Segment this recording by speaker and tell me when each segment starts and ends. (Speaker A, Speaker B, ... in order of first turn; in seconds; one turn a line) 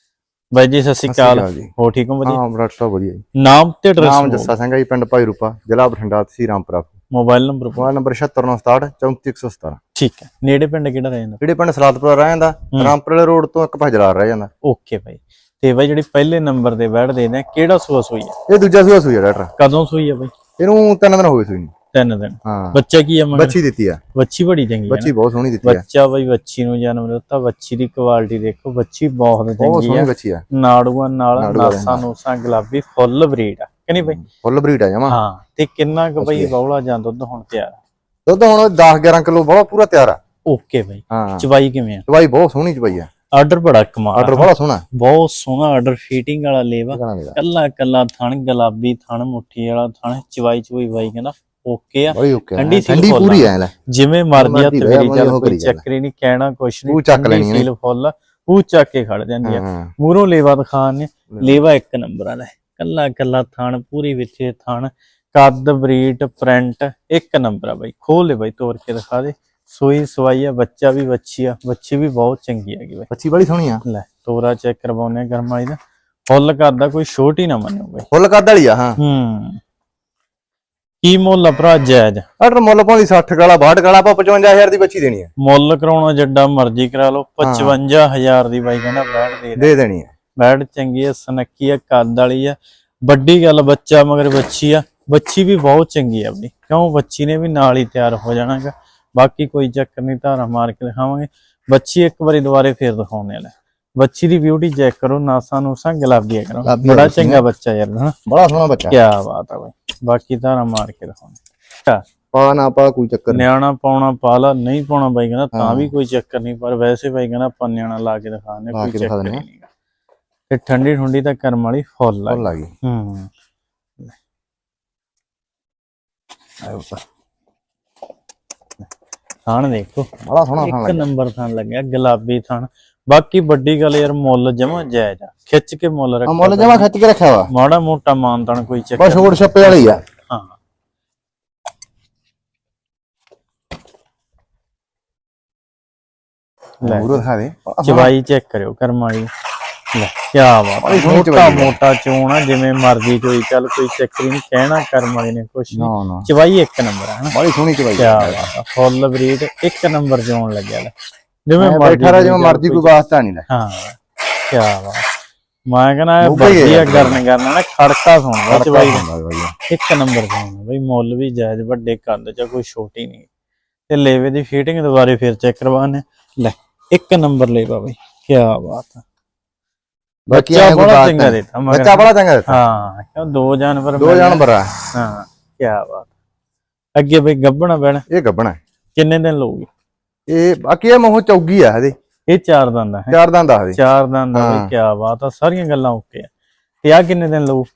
Speaker A: 0.5-2.4
Speaker B: 1.1-1.7
Speaker B: 2.2-3.2
Speaker A: 3.4-4.5
Speaker B: 4.0-7.0
Speaker A: 7.1-7.9
Speaker B: 7.8-9.8
Speaker A: 10.0-11.4
Speaker B: 11.4-14.5
Speaker A: 14.6-18.4
Speaker B: 18.5-19.5
Speaker A: 19.6-20.3
Speaker B: 20.6-21.7
Speaker A: 21.9-23.6
Speaker B: 22.4-22.8
Speaker B: 23.3-24.0
Speaker A: 24.1-25.1
Speaker B: 24.9-25.8
Speaker A: 25.6-34.2
Speaker B: 29.6-30.4
Speaker B: 31.4-32.0
Speaker B: 34.0-35.2
Speaker A: 35.1-37.8
Speaker B: 36.2-36.5
Speaker B: 38.3-40.2
Speaker A: 40.5-42.0
Speaker B: 41.1-41.4
Speaker B: 42.1-43.1
Speaker A: 43.4-73.1
Speaker B: 44.1-44.8
Speaker B: 46.9-47.4
Speaker B: 52.1-53.7
Speaker B: 54.4-55.8
Speaker B: 56.9-57.7
Speaker B: 59.4-59.9
Speaker B: 61.3-61.6
Speaker B: 73.1-73.8
Speaker A: 73.8-75.8
Speaker A: 76.3-78.1
Speaker B: 78.1-79.0
Speaker A: 79.0-79.6
Speaker A: 81.0-82.3
Speaker B: 82.4-85.3
Speaker A: 85.4-89.7
Speaker B: 87.4-87.7
Speaker B: 89.6-90.1
Speaker A: 90.4-108.2
Speaker B: 106.6-107.5
Speaker B: 108.3-109.0
Speaker A: 108.9-112.0
Speaker B: 112.3-113.5
Speaker A: 113.3-119.7
Speaker B: 115.5-115.9
Speaker B: 118.7-119.4
Speaker A: 120.5-123.3
Speaker B: 122.3-122.7
Speaker A: 126.6-127.0
Speaker A: 129.5-136.9
Speaker B: 130.2-131.1
Speaker B: 136.3-137.5
Speaker A: 137.5-140.6
Speaker B: 139.0-140.0
Speaker A: 146.8-147.3
Speaker B: 146.8-148.1
Speaker A: 147.8-149.3
Speaker A: 149.9-157.3
Speaker B: 150.8-151.8
Speaker B: 155.7-156.3
Speaker B: 157.3-158.5
Speaker A: 158.0-160.9
Speaker A: 161.5-162.9
Speaker B: 161.6-163.5
Speaker A: 163.5-164.0
Speaker A: 164.5-165.1
Speaker A: 165.7-169.1
Speaker B: 166.2-167.2
Speaker B: 168.5-169.5
Speaker A: 169.7-173.3
Speaker A: 173.9-179.0
Speaker B: 180.3-182.6
Speaker A: 180.3-184.4
Speaker B: 184.0-184.7
Speaker A: 184.9-186.1
Speaker A: 187.0-188.1
Speaker B: 188.1-188.6
Speaker A: 189.0-189.7
Speaker B: 190.3-191.9
Speaker A: 192.3-193.2
Speaker B: 193.1-193.8
Speaker A: 193.7-196.3
Speaker B: 194.3-194.7
Speaker A: 196.8-197.7